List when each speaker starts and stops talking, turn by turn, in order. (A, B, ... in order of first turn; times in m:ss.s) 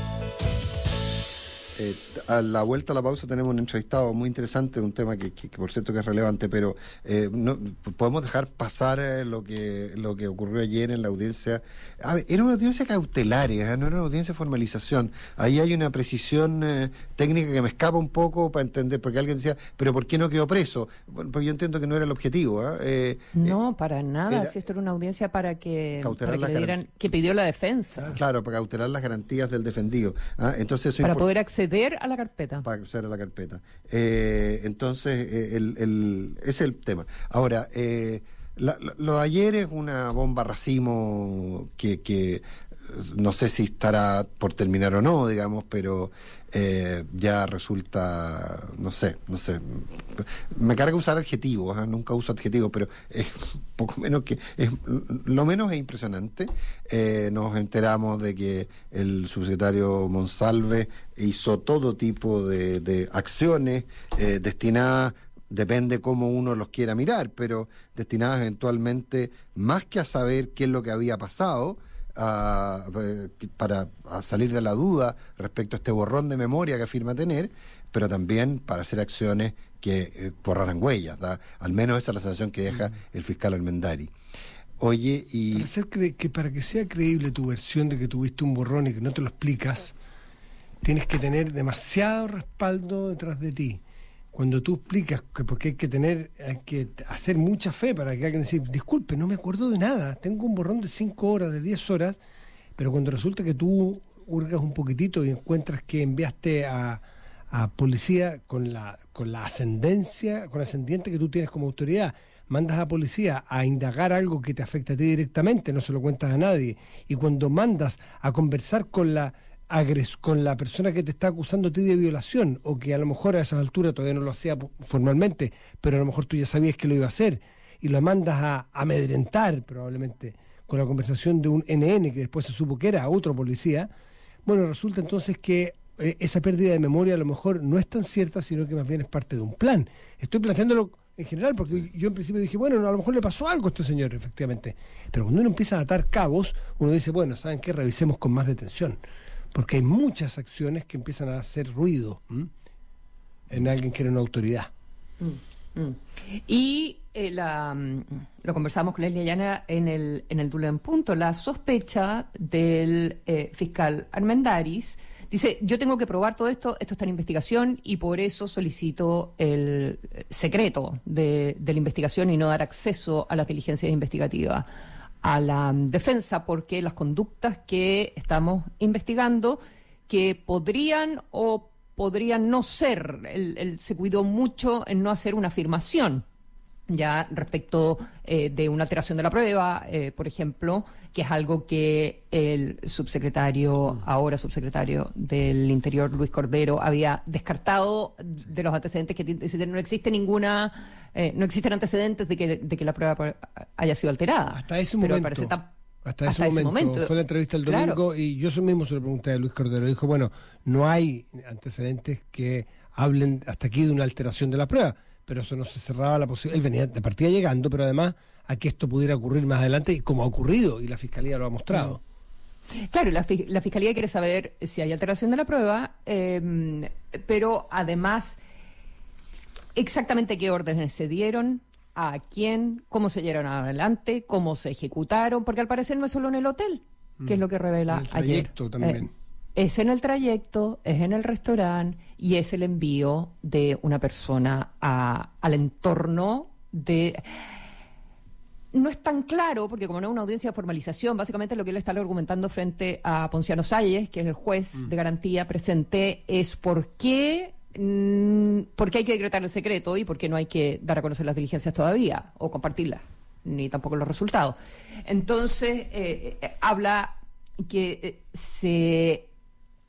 0:01.8-0:23.6 A
0:23.4-0:28.2 B
0:24.3-0:24.6 A
0:26.0-0:26.8 A
0:28.1-0:31.3 A
0:31.0-0:32.7 B
0:32.6-1:24.1 A
1:24.8-1:25.7 A
1:25.6-1:29.9 C
1:30.8-1:33.8 C
1:34.3-1:42.2 C
1:42.8-2:13.9 C
2:14.4-2:29.0 C
2:29.5-2:32.5 C
2:33.5-2:34.7 C
2:35.2-2:54.7 B
2:55.2-3:06.2 B
3:06.9-3:25.7 B
3:24.5-3:42.0 C
3:26.3-3:27.1 B
3:27.7-3:28.0 B
3:42.8-3:48.4 B
3:49.8-3:59.0 B
3:57.2-3:59.1 C
3:59.6-4:07.3 B
4:08.7-4:29.3 B